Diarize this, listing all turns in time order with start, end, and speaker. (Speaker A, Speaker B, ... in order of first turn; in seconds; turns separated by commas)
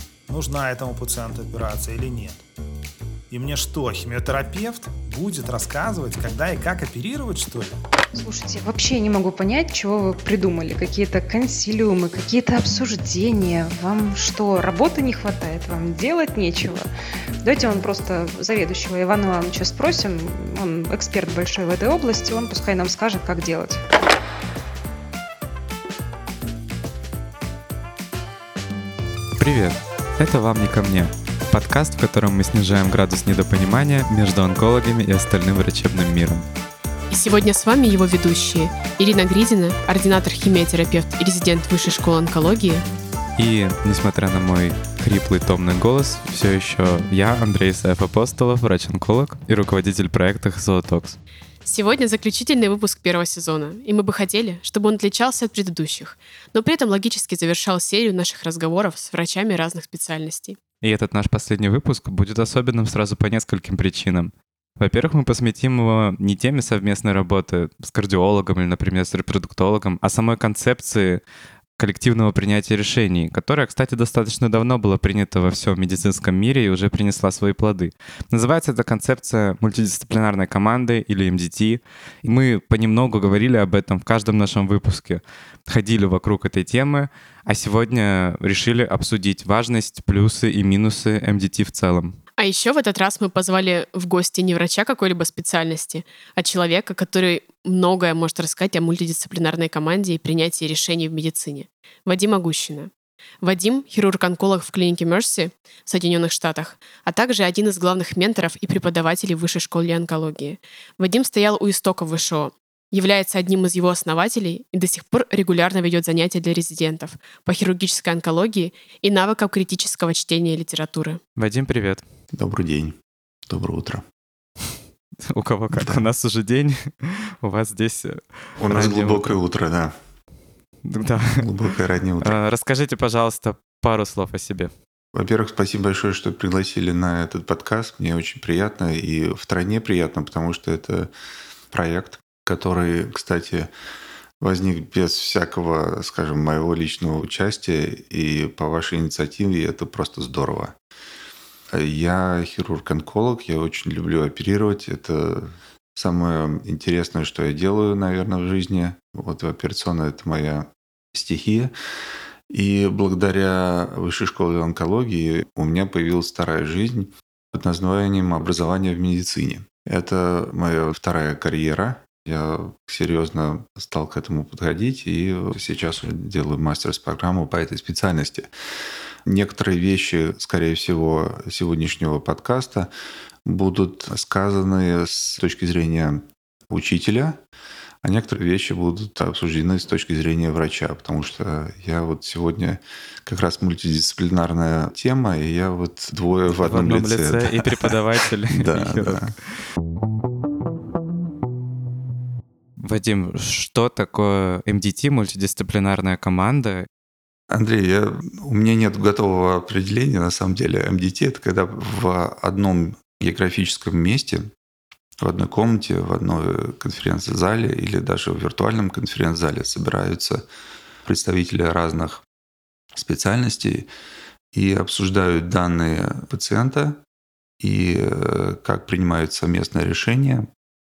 Speaker A: 0.3-2.4, Speaker A: 3.3-7.8, Speaker B: 8.1-16.9, Speaker B: 17.4-23.8, Speaker C: 29.4-36.5, Speaker D: 37.1-42.8, Speaker C: 43.4-51.2, Speaker D: 51.7-60.6, Speaker C: 60.8-71.2, Speaker C: 71.8-92.2, Speaker D: 92.4-102.9, Speaker D: 103.4-121.2, Speaker C: 121.4-122.0, Speaker E: 122.3-123.0, Speaker E: 123.5-124.0, Speaker C: 125.2-129.4, Speaker E: 125.7-126.0, Speaker E: 128.6-129.9, Speaker C: 130.8-131.4, Speaker E: 131.3-132.4, Speaker C: 132.2-134.7, Speaker E: 135.2-141.1, Speaker E: 141.7-143.7, Speaker E: 144.4-150.7, Speaker E: 151.7-161.7, Speaker E: 162.5-178.5, Speaker E: 179.2-182.9, Speaker E: 183.4-187.4, Speaker E: 188.0-197.9, Speaker C: 196.5-199.6, Speaker E: 198.5-199.3, Speaker C: 202.8-206.9, Speaker E: 207.5-214.5, Speaker E: 215.2-220.4, Speaker E: 221.1-222.2, Speaker E: 222.9-223.9, Speaker E: 224.5-227.0, Speaker E: 227.6-230.5